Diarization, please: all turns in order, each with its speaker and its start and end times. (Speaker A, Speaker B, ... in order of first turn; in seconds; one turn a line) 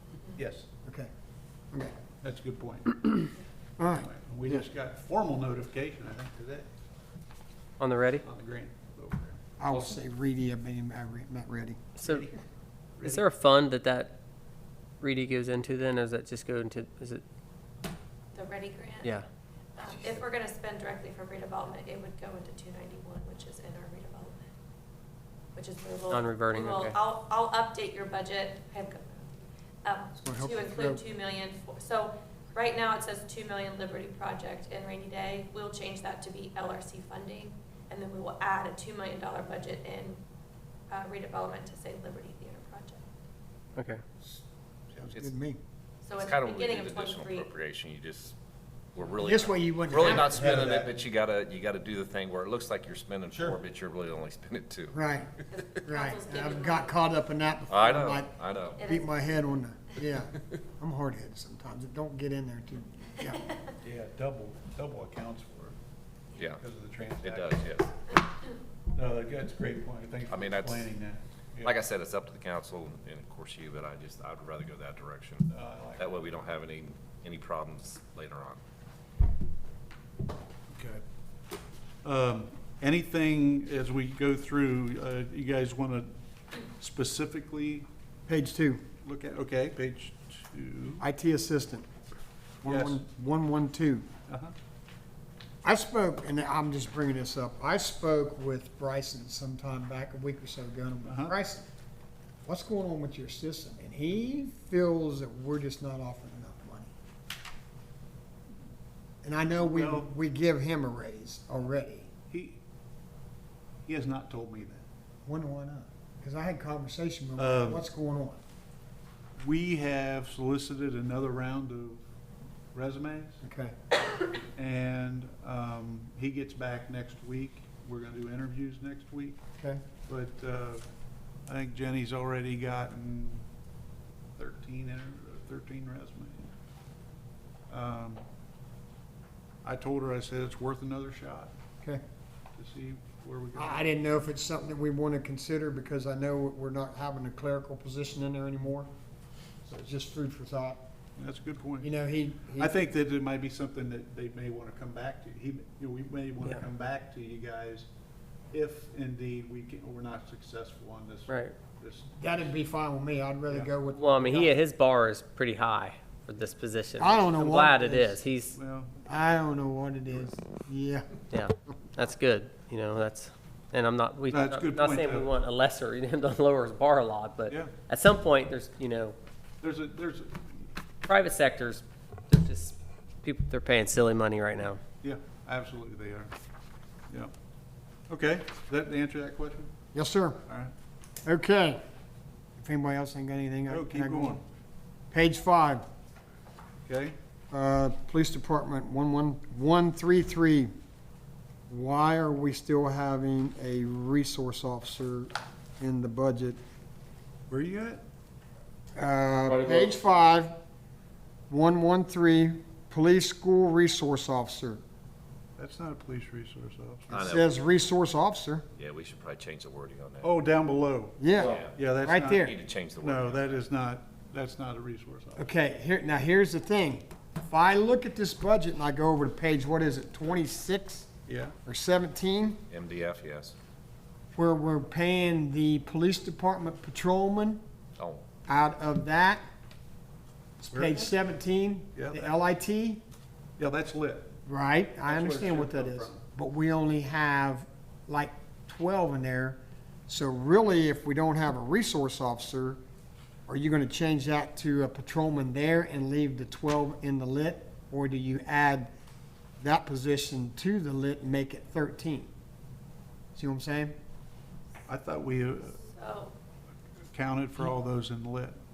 Speaker A: 0.4-0.7
Speaker B: 0.8-1.1
Speaker A: 2.2-3.3
Speaker B: 3.8-4.1
Speaker A: 3.8-6.7
Speaker C: 7.8-8.2
Speaker A: 8.2-9.4
Speaker B: 9.6-11.9
Speaker C: 12.0-12.3
Speaker A: 12.0-12.4
Speaker A: 13.0-13.3
Speaker C: 13.0-14.2
Speaker C: 15.0-17.2
Speaker D: 18.3-19.2
Speaker D: 19.8-24.4
Speaker D: 25.6-29.3
Speaker C: 26.1-27.0
Speaker D: 29.8-40.2
Speaker B: 30.2-31.0
Speaker D: 40.9-43.0
Speaker C: 43.8-44.0
Speaker B: 45.0-45.6
Speaker E: 45.0-45.3
Speaker D: 46.0-47.5
Speaker E: 46.2-48.4
Speaker E: 49.0-55.0
Speaker B: 49.2-50.7
Speaker A: 50.2-50.9
Speaker A: 53.3-53.6
Speaker B: 54.9-63.5
Speaker D: 55.5-56.9
Speaker E: 57.7-58.8
Speaker D: 58.8-59.4
Speaker A: 63.8-65.8
Speaker E: 66.4-66.6
Speaker A: 66.6-67.7
Speaker E: 67.2-67.9
Speaker A: 68.9-71.8
Speaker E: 70.3-70.9
Speaker E: 71.6-78.6
Speaker A: 75.5-76.3
Speaker A: 80.7-81.0
Speaker A: 82.0-86.1
Speaker A: 86.7-87.9
Speaker B: 88.3-88.8
Speaker A: 89.0-91.0
Speaker B: 91.0-91.9
Speaker B: 92.6-94.1
Speaker A: 92.6-93.0
Speaker A: 94.3-94.5
Speaker B: 95.6-101.7
Speaker A: 101.0-101.3
Speaker B: 102.5-106.9
Speaker B: 109.2-112.1
Speaker A: 109.6-110.1
Speaker A: 112.3-112.6
Speaker A: 113.9-114.9
Speaker B: 115.3-118.4
Speaker A: 117.4-117.9
Speaker A: 119.4-122.0
Speaker A: 122.7-123.4
Speaker B: 123.4-123.8
Speaker A: 124.6-129.4
Speaker B: 129.6-129.8
Speaker A: 130.1-130.8
Speaker A: 131.5-133.4
Speaker A: 134.4-136.5
Speaker A: 137.7-138.2
Speaker A: 139.6-141.5
Speaker A: 142.6-143.8
Speaker B: 143.6-148.9
Speaker B: 149.6-150.8
Speaker A: 151.2-151.9
Speaker B: 151.8-152.8
Speaker A: 152.6-157.9
Speaker A: 158.5-162.6
Speaker C: 161.3-161.6
Speaker B: 162.2-164.6
Speaker A: 163.5-163.8
Speaker C: 163.9-168.6
Speaker B: 167.0-168.2
Speaker A: 168.5-169.0
Speaker B: 169.1-171.1
Speaker C: 171.3-179.2
Speaker A: 174.3-175.3
Speaker A: 177.5-177.8
Speaker A: 179.6-180.7
Speaker C: 181.0-184.8
Speaker A: 185.0-186.3
Speaker A: 188.1-189.7
Speaker B: 189.9-190.4
Speaker A: 190.5-190.7
Speaker B: 191.2-191.8
Speaker B: 192.6-194.4
Speaker A: 193.7-194.4
Speaker B: 195.1-195.9
Speaker A: 196.9-197.2
Speaker B: 197.5-200.7
Speaker B: 201.7-206.6
Speaker A: 207.5-208.0
Speaker B: 209.0-210.6
Speaker B: 211.5-214.8
Speaker A: 215.6-217.1
Speaker B: 217.1-218.7
Speaker E: 217.1-217.6
Speaker E: 218.8-220.3
Speaker A: 220.2-221.2
Speaker B: 221.2-222.5
Speaker E: 221.4-223.6
Speaker A: 221.7-222.5
Speaker A: 223.0-225.5
Speaker B: 225.4-231.1
Speaker A: 231.3-231.6
Speaker B: 231.7-232.6
Speaker E: 232.7-233.6
Speaker B: 234.3-237.6
Speaker E: 238.0-238.2
Speaker B: 238.5-239.4
Speaker B: 240.6-243.0
Speaker A: 240.7-241.1
Speaker A: 241.9-242.3
Speaker A: 243.6-244.3
Speaker B: 244.5-252.8
Speaker A: 245.1-246.2
Speaker B: 253.5-258.9
Speaker B: 259.6-262.3
Speaker B: 263.4-263.9
Speaker A: 264.9-265.8
Speaker D: 265.8-266.3
Speaker A: 267.1-268.6